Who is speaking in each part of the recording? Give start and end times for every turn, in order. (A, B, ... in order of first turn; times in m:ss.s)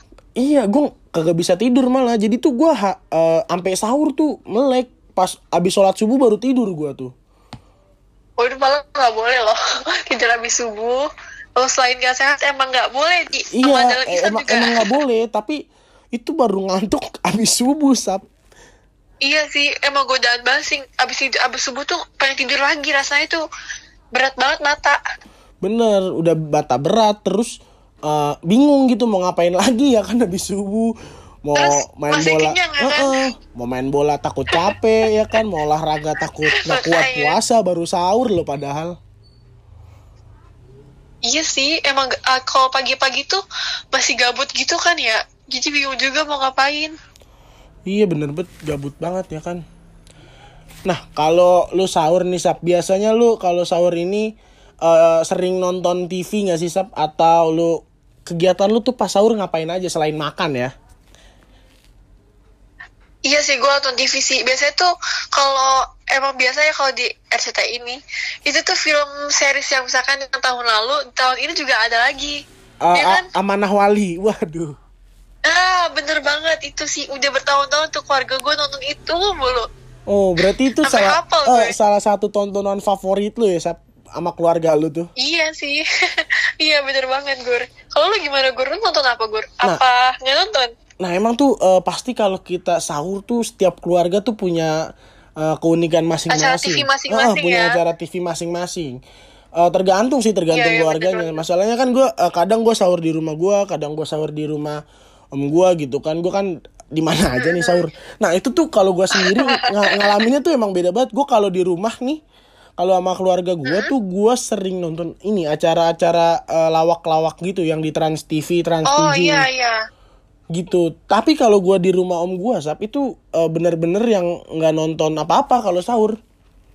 0:00.4-0:07.1 A
0:08.4-0:15.0 B
0:13.5-0:15.6 A
0:16.1-0:18.2 A
0:19.2-0:23.4 B
0:24.1-0:25.0 B
0:25.6-0:30.9 A
0:31.4-0:38.9 A
0:31.6-0:33.1 B
0:36.5-0:37.4 B
0:41.3-0:43.4 B
0:43.9-0:46.9 B
0:47.9-0:49.6 A
0:50.9-0:54.3 A
0:54.8-1:00.7 A
1:03.2-1:12.4 B
1:12.8-1:14.7 A
1:13.0-1:13.2 B
1:15.5-1:19.7 B
1:20.1-1:25.1 A
1:20.8-1:21.7 B
1:25.2-1:30.7 B
1:31.0-1:34.7 A
1:35.4-1:39.0 A
1:36.3-1:37.8 B
1:39.6-1:44.8 A
1:40.5-1:41.4 B
1:45.3-1:52.2 A
1:47.4-1:47.8 B
1:49.2-1:50.1 B
1:52.8-1:59.5 A
1:53.6-1:53.9 B
1:58.9-1:59.8 B
2:00.5-2:06.2 A